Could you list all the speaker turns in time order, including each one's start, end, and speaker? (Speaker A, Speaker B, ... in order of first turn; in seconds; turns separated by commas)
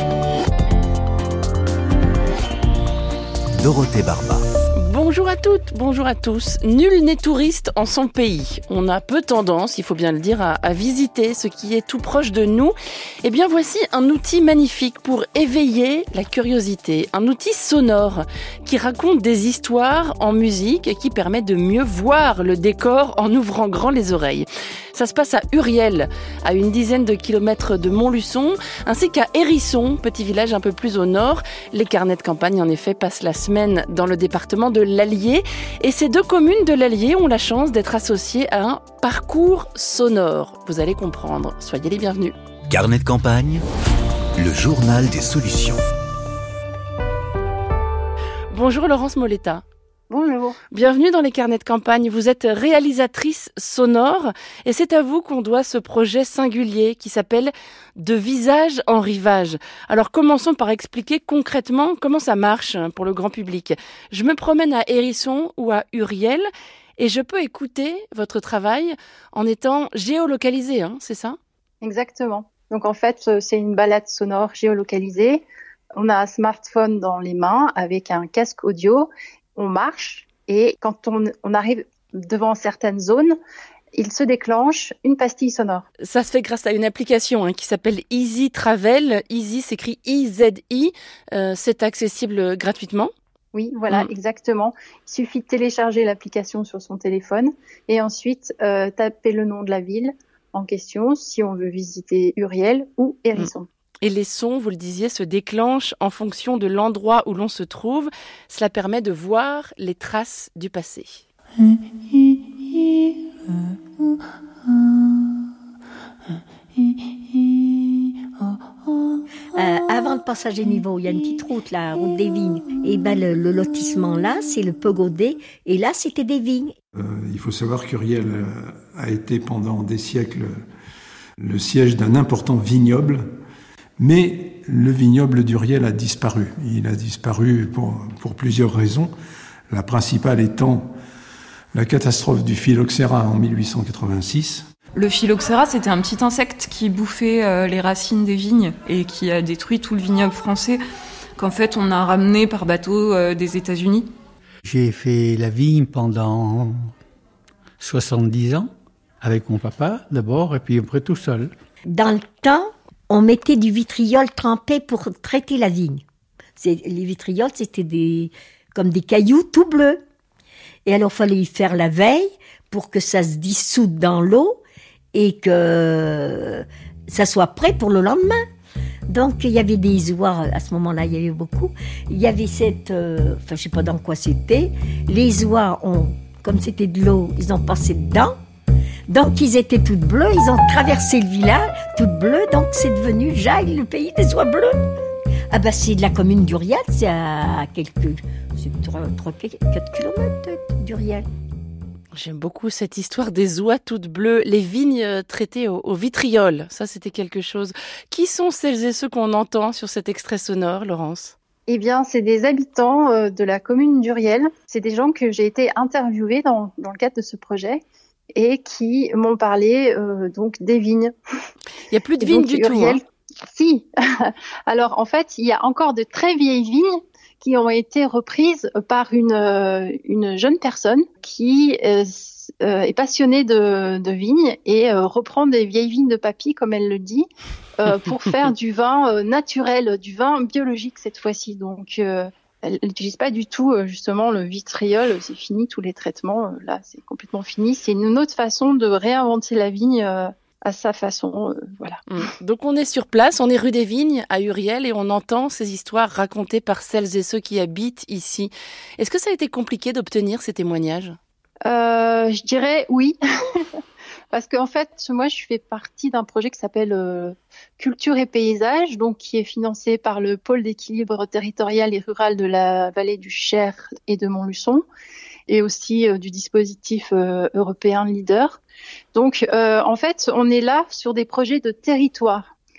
Speaker A: 3.5-4.5, Speaker B: 4.8-42.3, Speaker A: 42.7-43.6, Speaker A: 44.4-45.8, Speaker B: 48.5-49.6, Speaker C: 50.1-50.6, Speaker B: 50.7-66.5, Speaker B: 67.0-71.4, Speaker C: 71.8-75.4, Speaker C: 76.0-83.3, Speaker C: 83.9-85.8, Speaker B: 86.0-93.1, Speaker C: 93.5-103.7, Speaker B: 104.0-111.2, Speaker D: 119.6-126.7, Speaker E: 126.9-130.6, Speaker E: 131.4-133.3, Speaker E: 134.0-139.1, Speaker E: 139.7-140.9, Speaker E: 141.7-144.7, Speaker F: 144.9-150.8, Speaker F: 151.4-154.1, Speaker G: 154.7-156.7, Speaker G: 157.8-158.7, Speaker G: 159.2-161.5, Speaker D: 161.9-166.0, Speaker D: 166.6-170.0, Speaker D: 170.8-174.6, Speaker D: 175.1-178.4, Speaker D: 179.1-188.3, Speaker D: 189.1-194.8, Speaker D: 195.5-201.3, Speaker B: 202.1-211.3, Speaker C: 211.7-221.1, Speaker B: 221.9-223.0, Speaker C: 222.2-252.0, Speaker B: 252.1-261.2, Speaker C: 261.6-263.8, Speaker C: 264.3-274.8, Speaker C: 275.5-278.6, Speaker C: 279.1-282.4